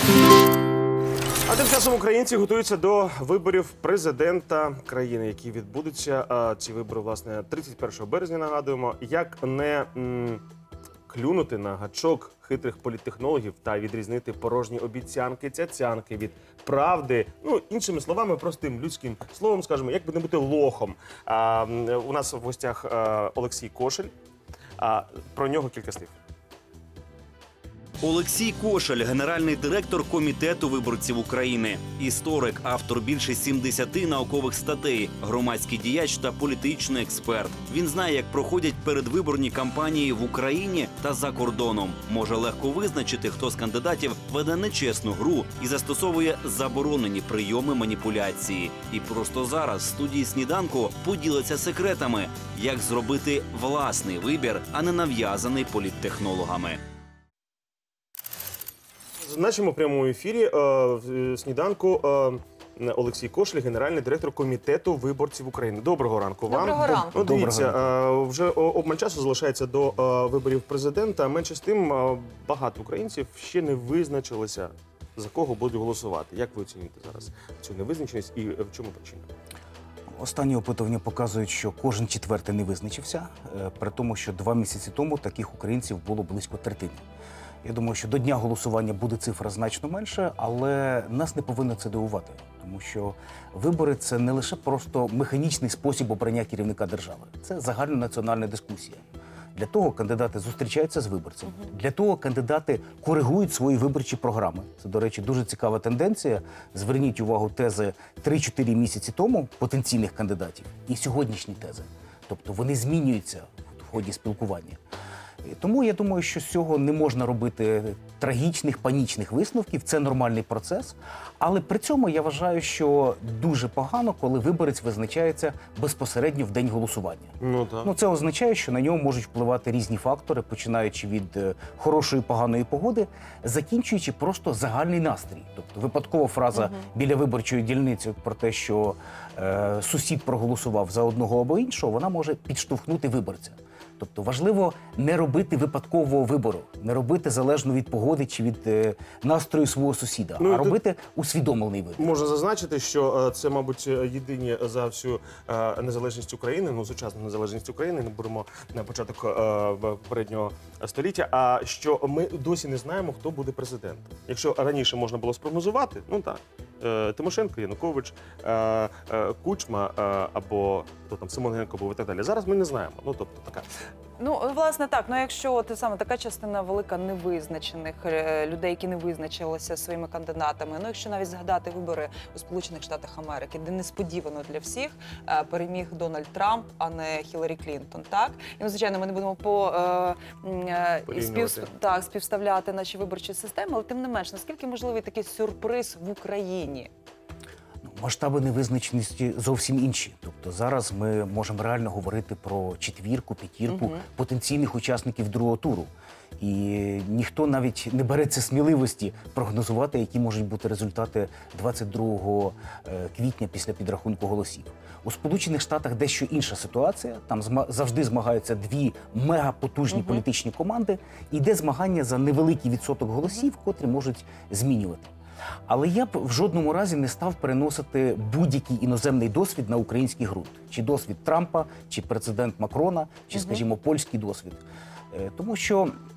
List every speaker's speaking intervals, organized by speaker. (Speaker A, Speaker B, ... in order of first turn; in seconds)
Speaker A: 1.5-10.4, 11.1-24.1, 24.8-26.1, 59.2-79.3, 127.4-127.9, 150.4-150.8, 152.0-173.7, 191.1-191.7
Speaker B: 28.0-56.8
Speaker C: 66.5-67.2, 174.2-196.9, 203.7-204.0, 219.9-220.2, 233.3-233.6
Speaker D: 66.8-67.8, 80.2-87.0, 87.6-99.0, 99.5-114.8, 115.4-152.2, 197.8-225.1, 225.7-235.9